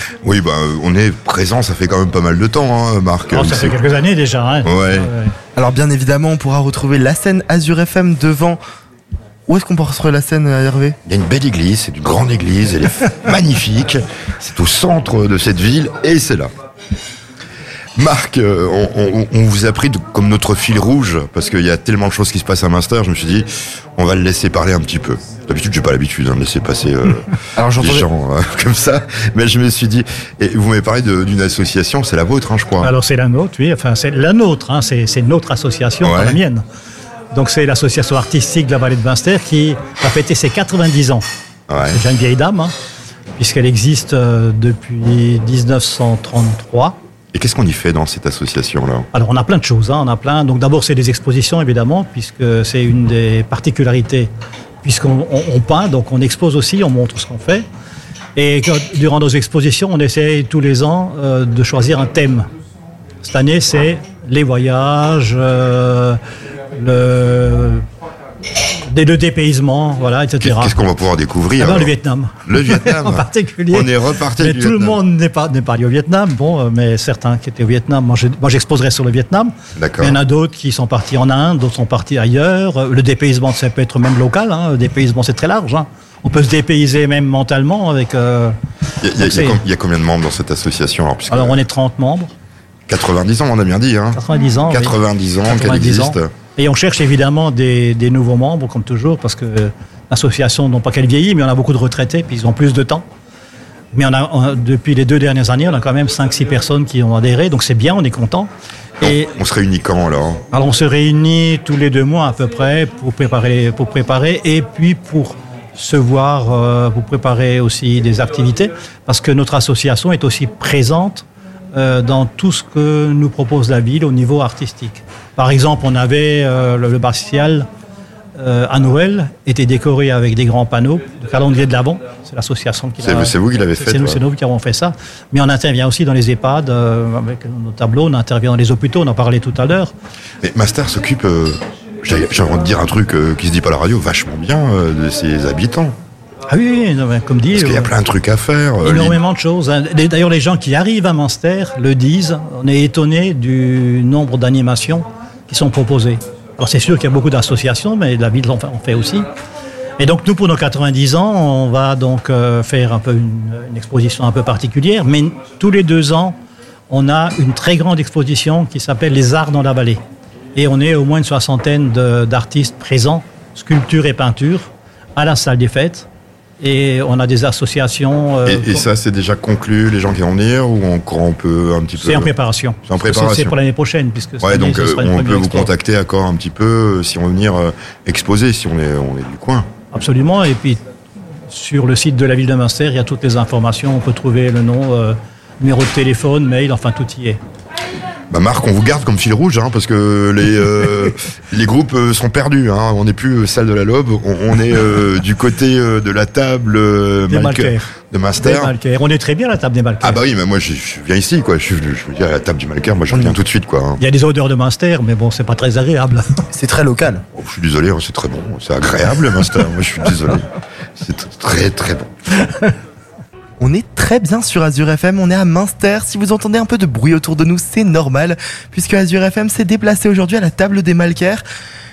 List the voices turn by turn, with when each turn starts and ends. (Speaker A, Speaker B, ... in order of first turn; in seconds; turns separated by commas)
Speaker A: 0.2-3.8, Speaker B: 3.3-5.3, Speaker A: 4.7-5.1, Speaker C: 5.6-8.6, Speaker C: 9.5-11.0, Speaker A: 11.1-16.5, Speaker A: 18.0-27.2, Speaker C: 27.6-28.1, Speaker A: 27.8-32.9, Speaker B: 32.8-36.6, Speaker A: 36.0-36.4, Speaker B: 37.3-41.2, Speaker A: 41.7-42.0, Speaker B: 41.9-42.7, Speaker B: 43.4-47.0, Speaker A: 47.3-49.1, Speaker B: 49.1-54.3, Speaker B: 54.8-57.6, Speaker B: 58.4-62.5, Speaker B: 63.2-66.2, Speaker B: 66.8-67.8, Speaker B: 68.7-70.8, Speaker A: 70.4-71.9, Speaker B: 71.6-88.5, Speaker A: 72.5-75.0, Speaker A: 79.8-80.2, Speaker A: 89.0-91.6, Speaker B: 89.2-89.6, Speaker B: 91.3-92.3, Speaker A: 92.9-94.2, Speaker B: 94.1-95.0, Speaker A: 94.7-96.3, Speaker B: 95.5-103.0, Speaker B: 103.9-108.5, Speaker A: 109.0-110.4, Speaker B: 109.0-109.3, Speaker B: 110.5-127.7, Speaker B: 128.4-139.9, Speaker A: 133.0-134.2, Speaker A: 140.4-146.0, Speaker B: 146.5-147.9, Speaker A: 147.5-149.2, Speaker B: 148.8-159.3, Speaker B: 160.0-166.4, Speaker B: 166.9-170.0, Speaker B: 170.6-176.1, Speaker B: 176.6-178.8, Speaker A: 178.5-182.3, Speaker B: 182.0-185.7, Speaker A: 182.9-183.6, Speaker A: 184.4-189.7, Speaker B: 189.9-190.8, Speaker B: 191.5-197.4, Speaker A: 198.3-208.8, Speaker B: 207.3-210.2, Speaker A: 210.0-214.0, Speaker C: 213.1-213.4, Speaker B: 214.0-216.4, Speaker C: 216.5-217.2, Speaker A: 217.3-222.1, Speaker C: 223.6-231.4